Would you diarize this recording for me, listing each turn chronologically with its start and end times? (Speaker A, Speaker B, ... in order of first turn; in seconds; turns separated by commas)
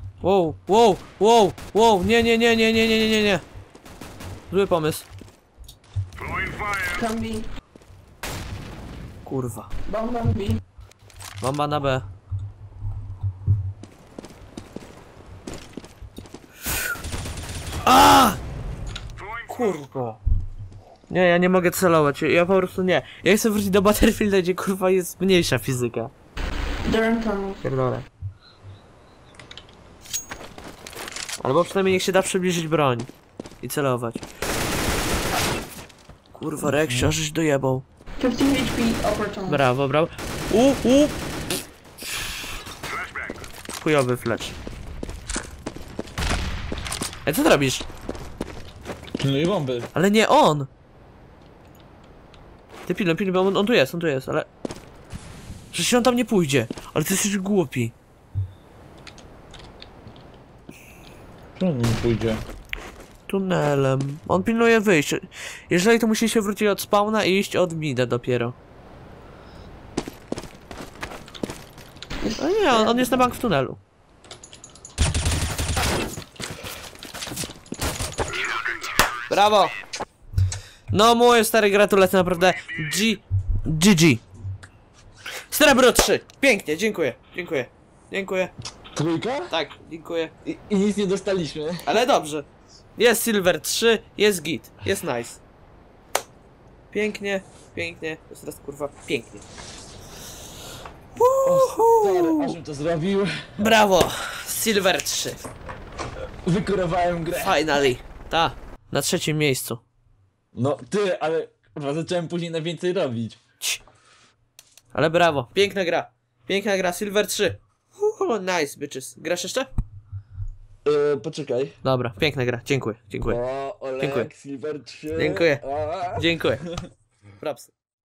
Speaker A: 0.2-3.4, Speaker A: 4.5-5.0, Speaker B: 6.9-7.5, Speaker A: 9.2-9.7, Speaker B: 9.9-10.6, Speaker A: 11.4-12.0, Speaker A: 17.8-18.4, Speaker A: 19.5-20.2, Speaker A: 21.1-26.1, Speaker B: 26.8-27.6, Speaker A: 27.6-28.1, Speaker A: 31.4-33.1, Speaker A: 33.6-34.2, Speaker A: 36.3-37.8, Speaker C: 36.6-37.1, Speaker B: 38.2-39.6, Speaker A: 39.5-41.1, Speaker A: 43.8-44.5, Speaker A: 47.2-47.9, Speaker C: 49.2-49.9, Speaker A: 49.9-50.7, Speaker A: 52.9-54.5, Speaker A: 55.7-57.9, Speaker C: 61.5-62.4, Speaker A: 63.3-68.5, Speaker B: 72.2-73.2, Speaker A: 72.4-73.8, Speaker A: 79.3-79.8, Speaker A: 80.9-84.2, Speaker A: 85.5-88.5, Speaker C: 88.9-89.5, Speaker A: 89.5-90.3, Speaker C: 90.4-92.0, Speaker A: 91.8-95.4, Speaker A: 96.9-99.4, Speaker A: 101.1-102.6, Speaker C: 101.4-103.8, Speaker A: 103.6-105.4, Speaker C: 106.4-107.9, Speaker A: 107.3-109.8, Speaker C: 110.5-113.4, Speaker A: 114.9-119.7, Speaker C: 120.8-121.8, Speaker A: 121.8-123.4, Speaker C: 123.2-126.8, Speaker A: 124.0-124.3, Speaker A: 125.2-125.6, Speaker A: 126.1-126.6, Speaker A: 127.4-127.7